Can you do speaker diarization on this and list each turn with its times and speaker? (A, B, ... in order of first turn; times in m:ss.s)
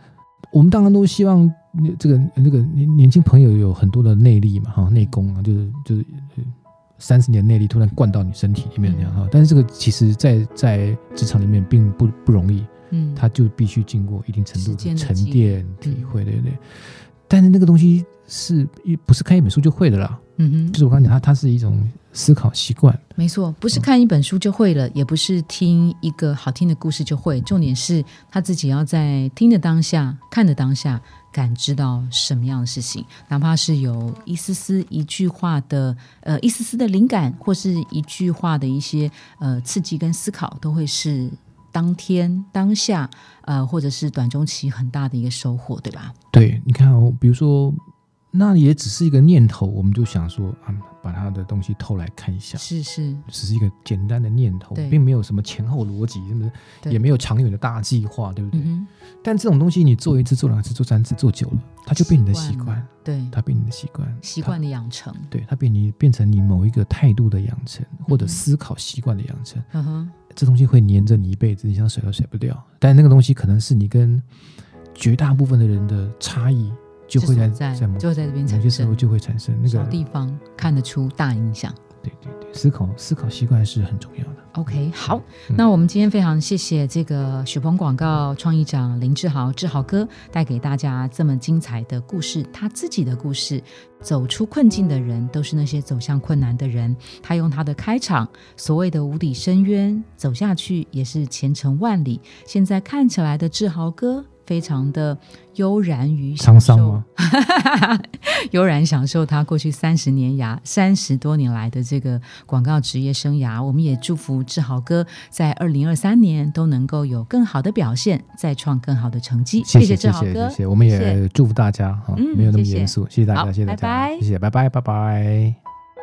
0:00.5-0:23.0 A
0:08.8-0:09.2 B
0:12.9-0:13.2 B
0:14.5-0:16.2 B
0:20.4-0:20.8 B
0:23.2-0:46.1 B
0:46.3-0:52.6 A
0:52.6-0:53.2 B
0:53.3-0:58.7 A
0:58.5-0:58.9 B
0:59.2-1:04.6 A
1:02.0-1:03.4 B
1:04.2-1:05.3 B
1:05.3-1:09.7 A
1:08.1-1:08.4 B
1:09.7-1:10.2 B
1:10.3-1:14.2 A
1:14.9-1:20.0 A
1:17.2-1:19.1 B
1:19.6-1:21.8 B
1:22.0-1:24.5 A
1:24.5-2:01.2 B
1:46.4-1:47.0 A
1:59.6-2:05.6 A
2:02.1-2:04.2 B